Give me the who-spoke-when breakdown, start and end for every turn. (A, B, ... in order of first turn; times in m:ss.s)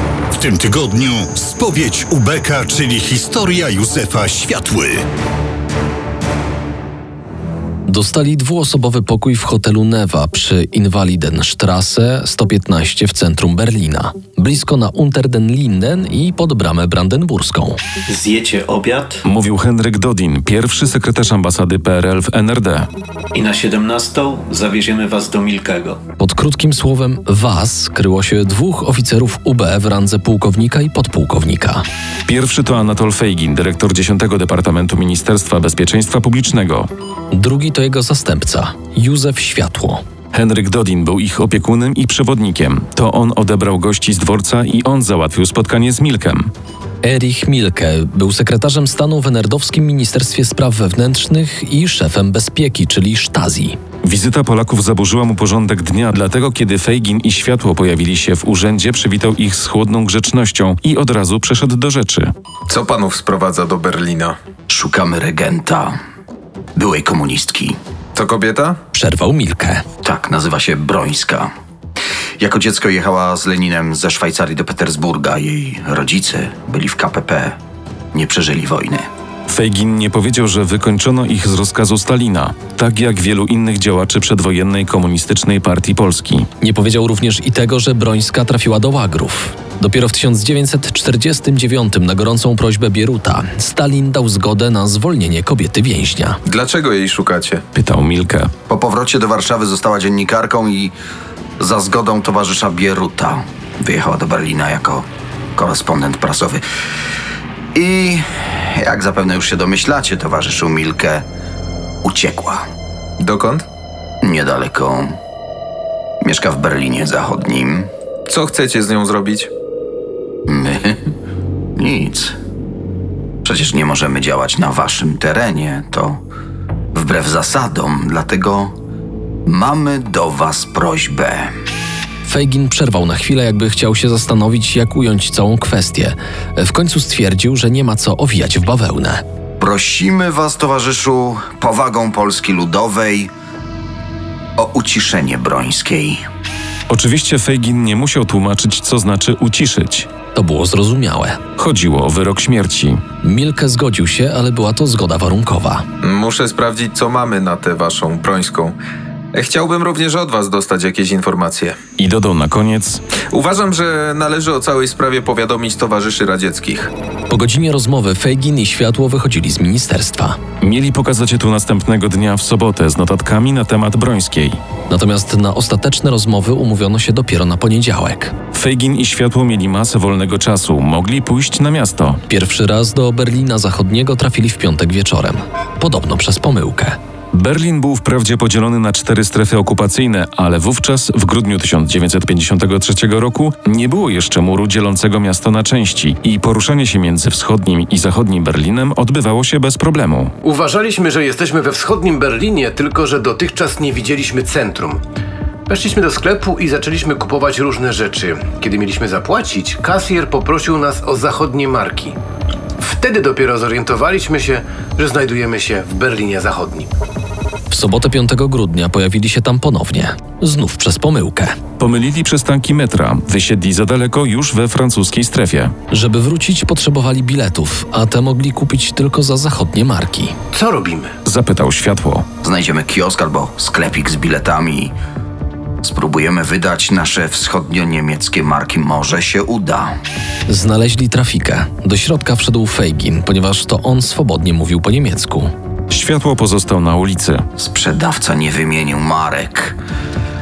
0:00.3-0:05.0 A
0:07.9-0:17.8 B
0:18.1-0:19.2 C
0:19.2-0:22.9 D
0:23.3-0:26.0 C
0:26.2-0:31.8 B
0:32.3-0:36.9 D
0:37.3-0:40.0 B
0:40.3-0:46.5 D
0:47.0-0:53.8 B
0:54.0-1:02.3 D
1:02.7-1:04.4 E
1:04.7-1:05.9 F
1:06.8-1:07.8 F
1:08.1-1:08.8 E
1:08.9-1:09.8 B
1:10.0-1:11.5 F
1:12.4-1:17.6 F
1:18.1-1:19.1 F
1:19.5-1:26.5 D
1:26.6-1:36.4 B
1:36.4-1:37.6 E
1:37.7-1:38.5 D
1:38.7-1:40.9 F
1:41.6-1:45.0 F
1:45.6-1:46.6 F
1:47.7-1:51.2 F
1:52.0-1:52.6 F
1:53.2-1:53.7 E
1:54.2-1:55.1 F
1:56.2-1:57.9 F
1:58.3-1:59.5 E
2:00.5-2:01.0 F
2:01.8-2:02.3 F
2:03.4-2:06.2 F
2:06.9-2:08.7 F
2:09.4-2:11.5 F
2:12.2-2:19.2 B
2:19.6-2:23.3 F
2:24.6-2:26.2 F
2:26.9-2:30.1 D
2:30.3-2:31.4 B
2:31.6-2:33.0 D
2:33.2-2:35.8 B
2:36.0-2:38.7 E
2:39.3-2:41.8 E
2:42.0-2:43.0 D
2:43.3-2:46.9 E
2:47.3-2:50.4 B
2:50.6-2:54.6 D
2:54.9-2:58.3 B
2:58.5-3:02.2 D
3:02.3-3:07.0 B
3:07.3-3:20.3 D
3:20.4-3:25.0 G
3:25.7-3:32.2 G
3:32.8-3:36.9 G
3:37.7-3:41.5 B
3:41.8-3:45.7 D
3:45.9-3:50.3 B
3:50.5-3:51.1 G
3:51.2-3:52.3 D
3:52.4-3:54.9 F
3:55.8-3:59.9 F
4:00.5-4:05.5 B
4:05.9-4:07.4 D
4:07.6-4:09.8 F